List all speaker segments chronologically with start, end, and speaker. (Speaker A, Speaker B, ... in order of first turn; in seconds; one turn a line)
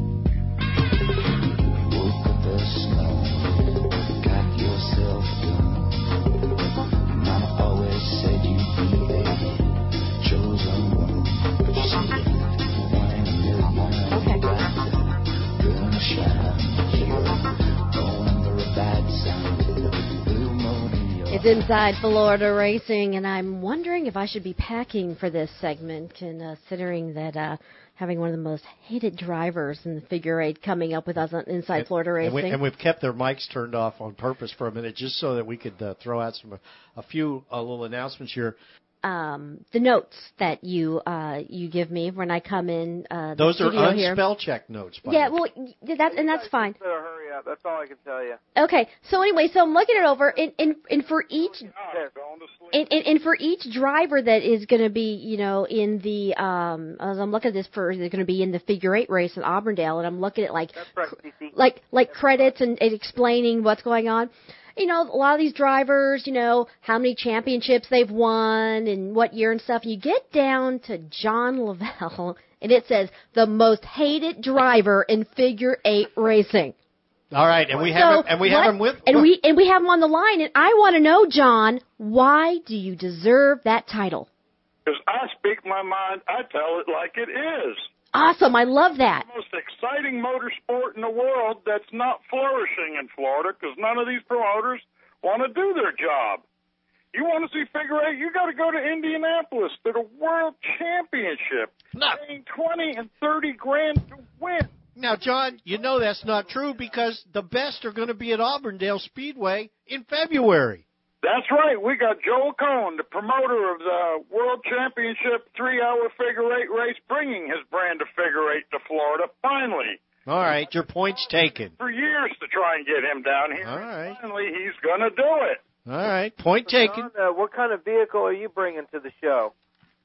Speaker A: 1.8-6.2
Speaker A: 7.1-21.6
Speaker B: 14.1-14.4
Speaker B: 21.3-32.6
Speaker C: 31.8-38.6
Speaker B: 39.0-44.2
Speaker C: 43.4-45.3
Speaker B: 45.0-46.8
Speaker D: 46.1-48.4
Speaker B: 48.6-51.7
Speaker E: 51.4-52.8
Speaker B: 52.7-76.8
Speaker D: 60.8-61.5
Speaker D: 62.1-62.5
Speaker C: 77.3-79.3
Speaker B: 77.8-84.3
Speaker E: 84.9-87.9
Speaker B: 88.1-89.3
Speaker E: 89.2-96.4
Speaker E: 97.1-104.7
Speaker C: 101.9-102.2
Speaker C: 105.0-110.8
Speaker E: 111.2-120.0
Speaker C: 120.3-121.7
Speaker E: 121.8-125.6
Speaker C: 123.6-124.2
Speaker C: 125.9-127.1
Speaker D: 126.7-129.5